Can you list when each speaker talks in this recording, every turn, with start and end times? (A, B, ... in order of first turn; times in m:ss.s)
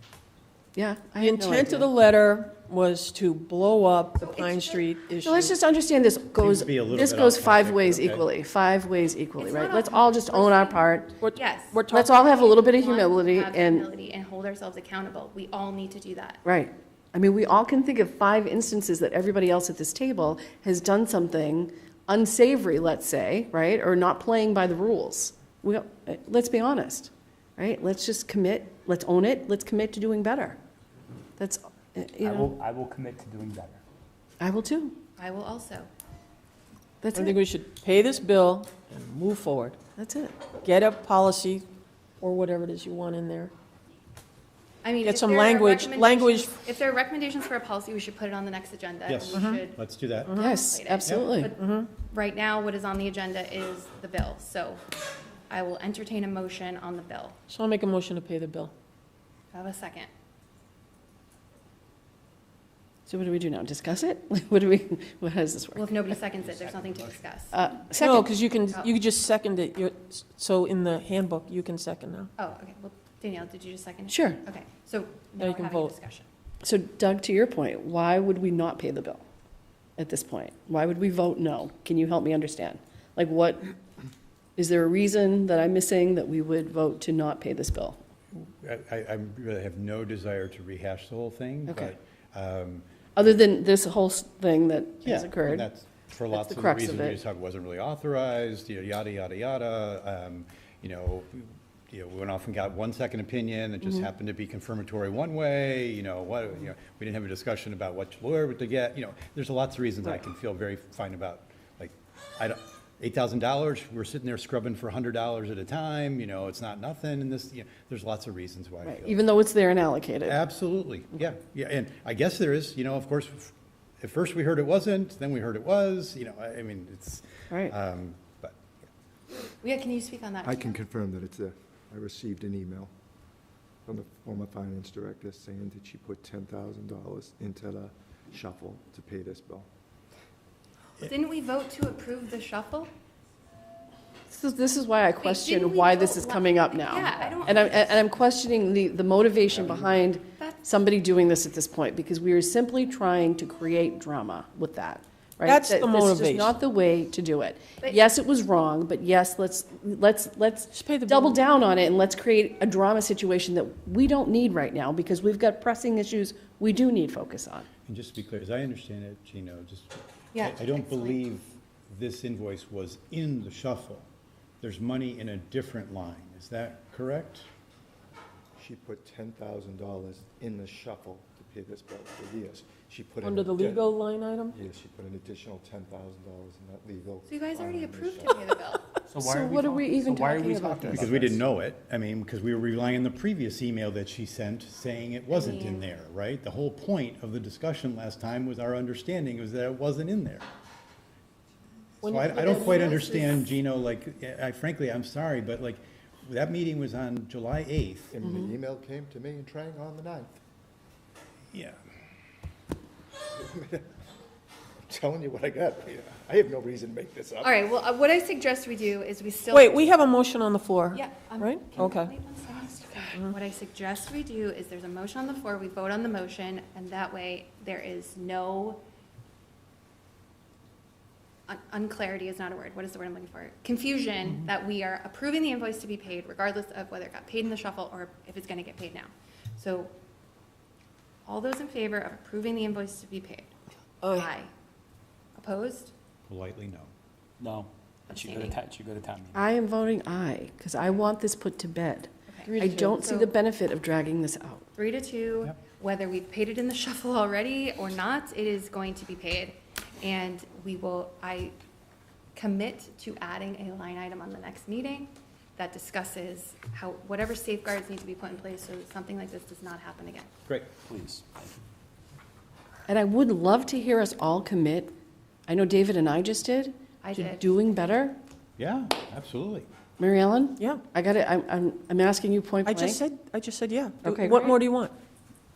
0:00.8-0:01.9 A
0:01.2-0:05.5 B
0:04.2-0:04.9 C
0:05.2-0:11.1 A
0:06.4-0:08.2 D
0:09.4-0:16.4 C
0:11.2-0:12.2 B
0:11.9-0:13.9 A
0:16.4-0:30.6 A
0:31.4-0:32.6 A
0:32.2-0:33.8 E
0:34.4-0:35.0 A
0:35.2-0:35.9 C
0:37.0-0:37.4 A
0:37.2-0:39.8 B
0:40.0-0:40.4 A
0:40.6-0:41.7 B
0:42.2-0:43.5 B
0:44.8-0:49.8 C
0:45.0-0:46.5 B
0:49.1-0:50.4 D
0:49.3-0:49.6 B
0:50.3-0:50.6 B
0:50.4-0:51.5 A
0:50.4-0:54.8 C
0:51.0-0:51.4 D
0:51.6-0:51.9 B
0:55.5-0:57.4 C
0:57.5-0:58.7 B
0:59.5-1:00.1 C
1:03.1-1:06.0 A
1:05.8-1:07.6 C
1:06.4-1:07.2 D
1:07.5-1:08.3 A
1:08.0-1:12.3 B
1:12.4-1:16.3 C
1:14.1-1:14.4 A
1:15.4-1:15.9 B
1:16.6-1:19.2 A
1:20.0-1:23.7 A
1:24.6-1:28.0 A
1:28.3-1:33.1 D
1:31.7-1:32.0 A
1:33.2-1:35.7 A
1:35.0-1:59.2 D
1:36.3-1:37.2 A
1:58.9-2:00.4 A
2:00.2-2:08.6 D
2:09.6-2:10.8 C
2:10.4-2:12.9 F
2:13.9-2:19.7 F
2:21.0-2:22.9 C
2:24.3-2:47.7 A
2:25.2-2:28.0 C
2:29.5-2:30.0 F
2:35.4-2:36.5 B
2:37.8-2:38.1 C
2:40.7-2:41.4 B
2:47.9-2:54.1 D
2:50.3-2:51.2 C
2:54.6-2:57.5 D
2:58.6-3:03.9 F
3:03.2-3:04.6 B
3:04.5-3:08.4 F
3:07.3-3:08.9 C
3:09.1-3:11.5 E
3:09.2-3:11.1 A
3:11.0-3:20.4 D
3:15.3-3:15.9 C
3:22.0-3:23.4 B
3:22.0-3:28.1 D
3:22.4-3:23.2 C
3:28.1-3:30.4 F
3:28.2-3:28.5 A
3:33.4-3:33.9 F
3:34.9-3:37.6 F
3:37.4-3:39.9 C
3:39.5-3:42.1 B
3:40.9-3:48.8 C
3:51.5-3:59.9 C
4:01.3-4:03.5 C
4:04.1-4:04.5 C
4:05.4-4:05.9 C
4:06.3-4:06.9 D
4:07.4-4:09.4 E
4:08.1-4:08.6 C
4:09.3-4:14.7 A
4:12.3-4:13.3 C
4:12.5-4:13.0 B
4:14.8-4:21.5 C
4:22.4-4:30.3 C
4:30.5-4:31.2 D
4:32.9-4:34.9 A
4:35.5-4:38.2 A
4:37.0-4:37.4 C
4:38.6-4:39.7 D
4:40.0-4:43.0 A
4:42.7-4:44.9 B
4:44.0-4:44.6 A